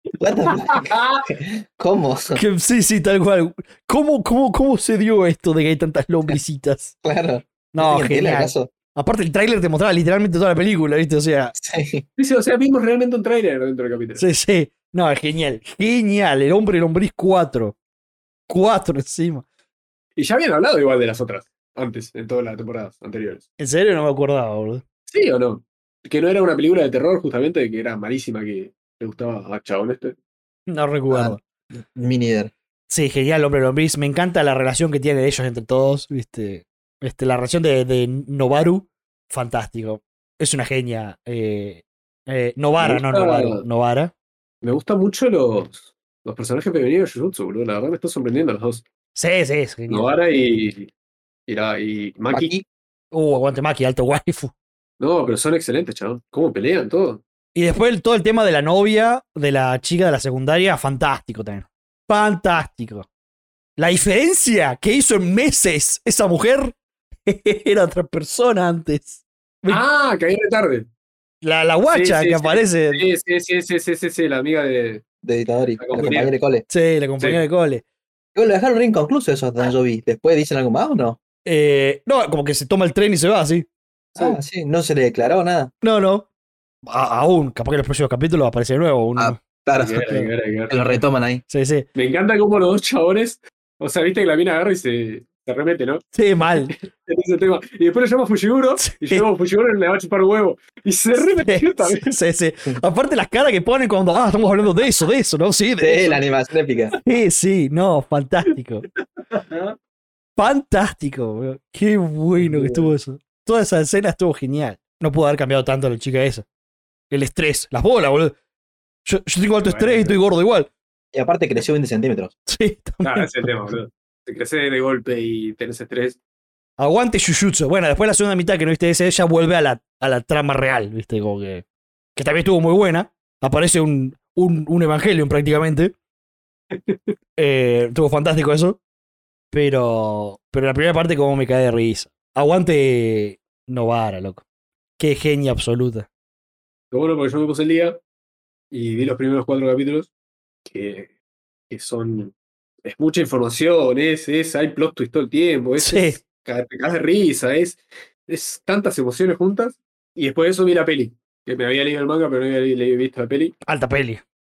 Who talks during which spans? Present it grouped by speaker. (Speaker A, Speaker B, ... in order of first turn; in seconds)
Speaker A: 0.2-2.4, 7.0-8.7, 11.6-12.0, 31.1-32.5, 52.3-52.6, 75.2-76.6, 78.3-81.2, 84.2-85.7, 89.2-91.4, 105.8-106.9, 121.1-122.3
Speaker B: 0.7-1.2, 12.2-14.2, 20.2-23.4, 25.1-30.1, 42.8-43.6, 44.6-48.8, 49.9-50.9, 51.5-52.5, 55.0-57.2, 69.7-70.9, 71.9-75.0, 75.8-76.3, 89.8-91.0, 91.9-102.1, 109.3-109.8, 112.4-112.9, 119.6-120.2, 123.0-126.2, 136.7-137.0, 146.9-148.0, 148.7-150.1, 150.7-151.1, 151.7-163.5
Speaker C: 2.3-7.0, 7.7-11.5, 14.2-17.8, 18.5-19.4, 23.6-24.8, 30.7-31.4, 32.9-44.1, 49.1-50.1, 53.1-54.5, 57.5-63.1, 63.8-69.8, 71.4-73.0, 76.7-77.8, 81.4-83.7, 85.8-86.3, 86.8-89.4, 91.5-91.9, 96.1-96.7, 98.8-99.2, 101.2-106.2, 107.0-108.9, 110.4-116.5, 117.1-118.3, 119.0-120.7, 122.5-123.3, 126.8-131.6, 132.2-135.9, 137.4-138.8, 139.5-144.4, 145.0-146.1, 155.8-156.2, 163.6-164.2